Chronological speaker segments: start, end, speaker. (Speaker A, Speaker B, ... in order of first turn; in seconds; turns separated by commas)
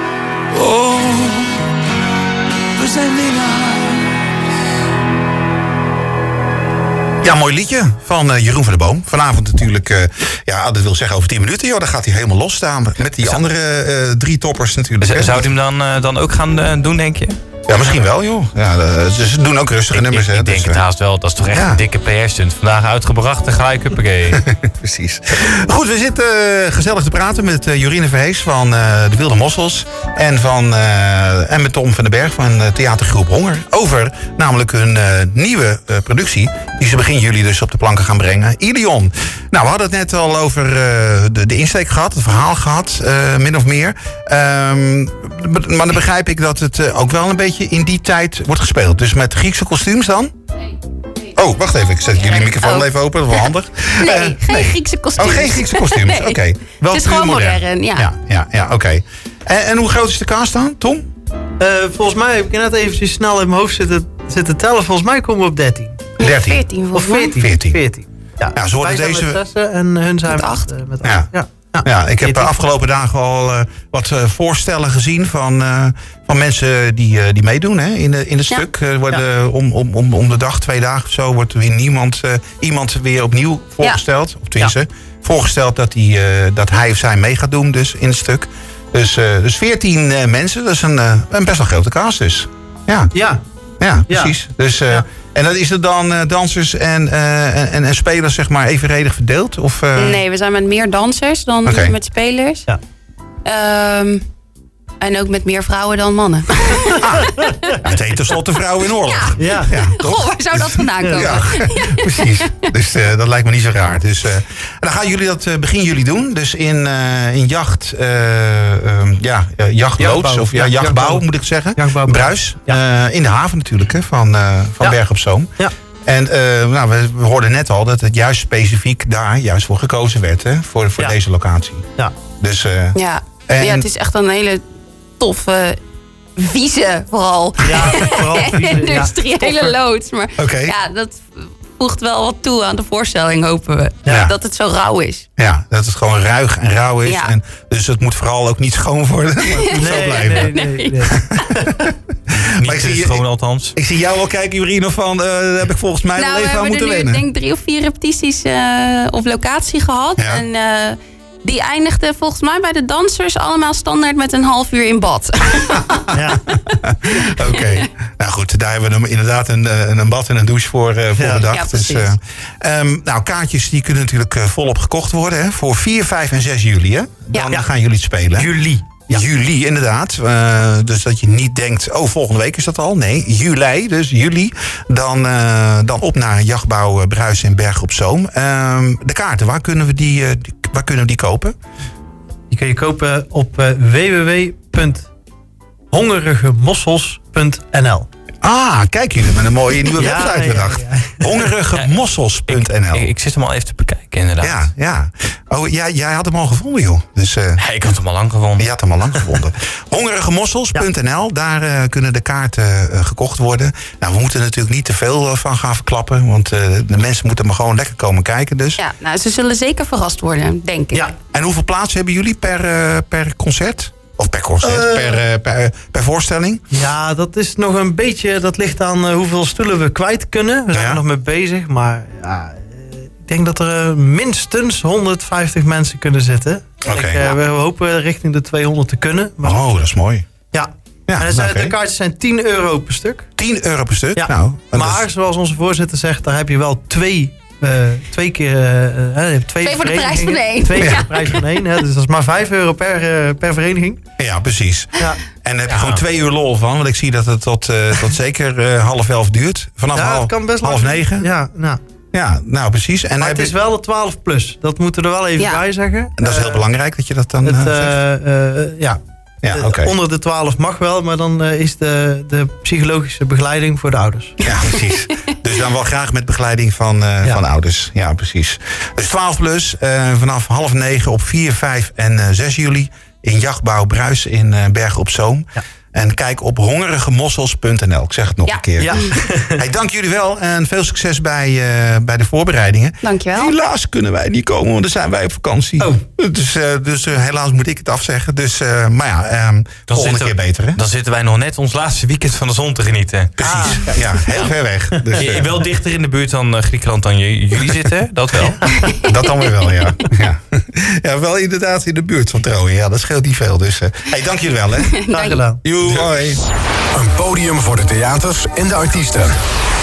Speaker A: 0.6-1.6, Speaker A: 2.8-4.1, Speaker B: 7.2-15.5, Speaker C: 15.0-17.4, Speaker B: 17.7-20.8, Speaker C: 19.9-24.4, Speaker B: 21.5-21.8, Speaker B: 24.3-50.3, Speaker B: 51.3-61.1, Speaker D: 52.2-58.1, Speaker E: 61.6-66.1, Speaker D: 66.2-67.5, Speaker B: 66.2-66.6, Speaker E: 66.9-72.5, Speaker B: 67.4-67.8, Speaker B: 68.5-69.4, Speaker D: 70.3-70.7, Speaker B: 71.0-71.3, Speaker B: 71.8-93.1, Speaker E: 93.1-93.4, Speaker B: 93.8-100.2, Speaker E: 94.1-94.3, Speaker D: 99.9-102.7, Speaker B: 101.6-101.9, Speaker D: 103.4-104.2, Speaker D: 105.0-107.8, Speaker B: 107.0-125.5, Speaker D: 109.1-112.7, Speaker E: 109.4-109.8, Speaker E: 111.0-111.4, Speaker E: 120.0-121.2, Speaker E: 121.8-122.8, Speaker B: 126.1-133.9, Speaker D: 132.9-134.6, Speaker D: 135.2-135.8, Speaker D: 136.4-145.2, Speaker E: 137.6-139.7, Speaker B: 140.4-140.8, Speaker B: 144.1-144.3, Speaker B: 145.4-150.5, Speaker D: 147.0-147.3, Speaker D: 149.5-151.5, Speaker E: 149.7-151.8, Speaker B: 151.1-153.2, Speaker C: 152.5-153.7, Speaker B: 153.8-157.2, Speaker D: 156.2-167.9, Speaker B: 160.2-160.4, Speaker E: 166.1-166.4, Speaker B: 166.7-178.5, Speaker E: 171.2-171.4, Speaker D: 171.4-172.1, Speaker E: 178.3-179.2, Speaker B: 179.1-191.5, Speaker E: 192.5-195.1, Speaker E: 195.9-198.1, Speaker B: 198.4-203.1, Speaker E: 199.9-201.5, Speaker C: 202.5-204.6, Speaker B: 204.4-207.7, Speaker C: 207.6-208.7, Speaker B: 208.5-218.8, Speaker D: 218.8-221.1, Speaker B: 221.3-226.6, Speaker E: 224.6-225.2, Speaker E: 226.7-239.6, Speaker B: 230.7-231.0, Speaker B: 236.8-237.2, Speaker B: 239.4-240.2, Speaker E: 240.5-243.3, Speaker B: 241.1-241.8, Speaker B: 243.4-245.1, Speaker E: 244.2-254.0, Speaker D: 249.6-251.7, Speaker B: 250.8-251.1, Speaker B: 254.2-261.3, Speaker E: 255.0-256.0, Speaker E: 259.9-261.8, Speaker B: 262.1-263.5, Speaker E: 263.2-266.6, Speaker D: 265.4-265.6, Speaker B: 266.2-268.0, Speaker E: 267.4-274.4, Speaker B: 269.4-269.9, Speaker B: 274.4-289.0, Speaker D: 274.5-275.4, Speaker D: 288.4-289.1, Speaker E: 288.8-289.6, Speaker B: 289.6-300.8, Speaker D: 293.0-293.5, Speaker C: 299.9-304.5, Speaker B: 303.4-305.5, Speaker E: 303.4-303.9, Speaker C: 305.2-308.8, Speaker E: 308.4-308.8, Speaker D: 308.8-310.0, Speaker B: 309.0-315.0, Speaker D: 314.8-315.4, Speaker E: 315.1-315.6, Speaker B: 315.6-316.4, Speaker F: 316.9-319.4